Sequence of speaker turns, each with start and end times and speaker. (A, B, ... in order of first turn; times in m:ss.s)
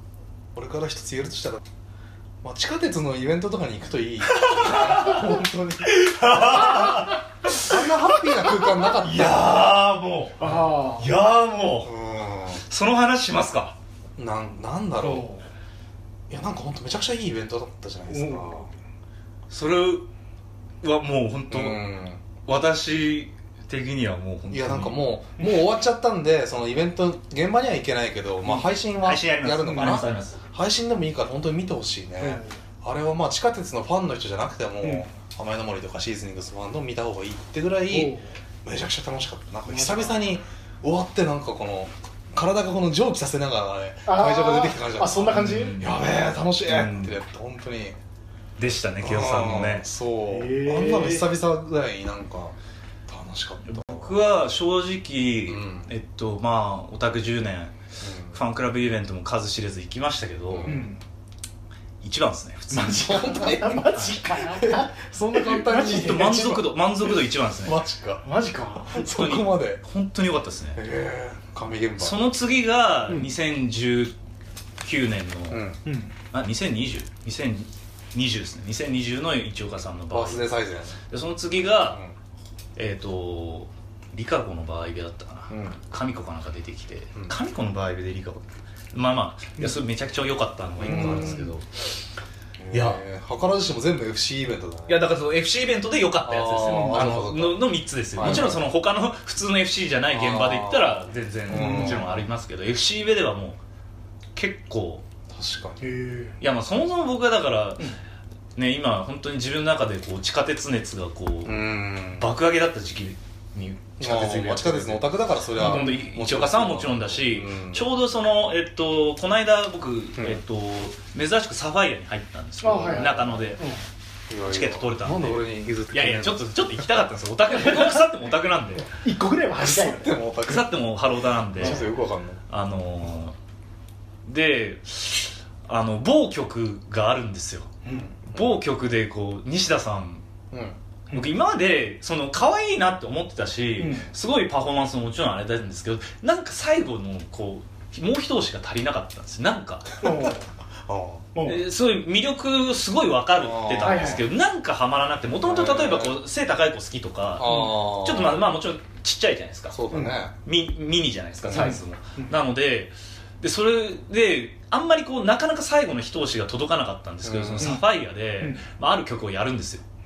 0:00.5-0:01.6 A
0:02.4-0:07.0 A
0:04.4-0:05.2 B
0:05.8-0:07.6 B
0:07.5-0:09.6 A
0:09.0-0:11.9 B
0:10.4-0:11.1 C
0:11.8-0:12.6 A
0:12.7-0:13.7 B
0:14.2-0:15.3 A
0:15.0-0:15.4 C
0:16.3-0:18.7 A
0:18.1-0:18.6 C
0:19.5-0:20.1 B
0:20.8-0:21.8 B
0:21.5-0:22.2 A
0:22.4-0:25.1 B
0:24.5-0:48.0 A
0:29.0-0:30.4 B
0:32.2-0:32.5 C
0:37.9-0:38.3 C
0:39.7-0:40.3 C
0:44.0-0:45.8 C
0:45.3-0:45.9 B
0:46.6-0:47.2 B
0:48.6-0:49.8 B
0:49.0-0:52.6 A
0:50.3-0:51.3 C
0:53.1-0:54.2 A
0:53.6-0:57.7 B
0:55.5-0:55.9 A
0:58.0-0:58.4 A
0:58.3-1:00.8 B
1:00.5-1:00.8 A
1:00.6-1:01.0 C
1:02.0-1:03.2 B
1:02.7-1:06.6 C
1:02.9-1:06.6 A
1:03.9-1:04.2 B
1:05.9-1:07.8 B
1:07.6-1:08.2 A
1:08.2-1:09.0 C
1:08.9-1:09.8 A
1:09.0-1:10.8 B
1:10.7-1:12.2 A
1:12.0-1:14.1 B
1:14.8-1:15.6 B
1:15.5-1:15.8 A
1:15.8-1:16.1 C
1:16.3-1:20.6 B
1:20.1-1:21.0 A
1:21.1-1:22.0 B
1:22.8-1:28.4 B
1:25.5-1:25.8 A
1:28.9-1:31.6 B
1:30.8-1:31.5 A
1:30.9-1:31.3 C
1:32.6-1:35.1 A
1:32.7-1:33.0 B
1:34.9-1:43.6 B
1:36.2-1:38.6 A
1:36.6-1:37.0 C
1:38.2-1:38.5 C
1:40.1-1:42.2 A
1:41.5-1:42.0 C
1:44.4-1:45.0 B
1:45.3-1:45.8 A
1:45.8-1:46.3 C
1:46.4-1:47.9 B
1:48.6-2:03.6 B
1:51.4-1:52.3 A
1:54.0-1:57.8 A
1:55.6-1:56.0 C
2:02.6-2:03.8 C
2:02.7-2:03.5 A
2:04.3-2:06.5 A
2:04.5-2:08.9 B
2:07.7-2:08.0 C
2:08.9-2:10.1 C
2:09.6-2:12.4 A
2:10.4-2:11.8 B
2:11.6-2:11.9 C
2:12.5-2:13.4 B
2:14.2-2:17.7 B
2:17.8-2:18.6 A
2:18.3-2:20.2 B
2:20.5-2:20.8 A
2:21.1-2:30.0 B
2:23.8-2:24.1 C
2:30.0-2:30.4 C
2:30.9-2:31.2 A
2:31.3-2:31.6 C
2:31.4-2:39.8 B
2:33.4-2:34.2 A
2:33.8-2:34.2 C
2:35.4-2:36.2 A
2:37.4-2:38.4 A
2:37.4-2:37.8 C
2:39.7-2:40.3 A
2:39.9-2:40.2 C
2:40.4-2:49.8 B
2:41.4-2:41.8 A
2:41.5-2:42.3 C
2:47.2-2:47.8 A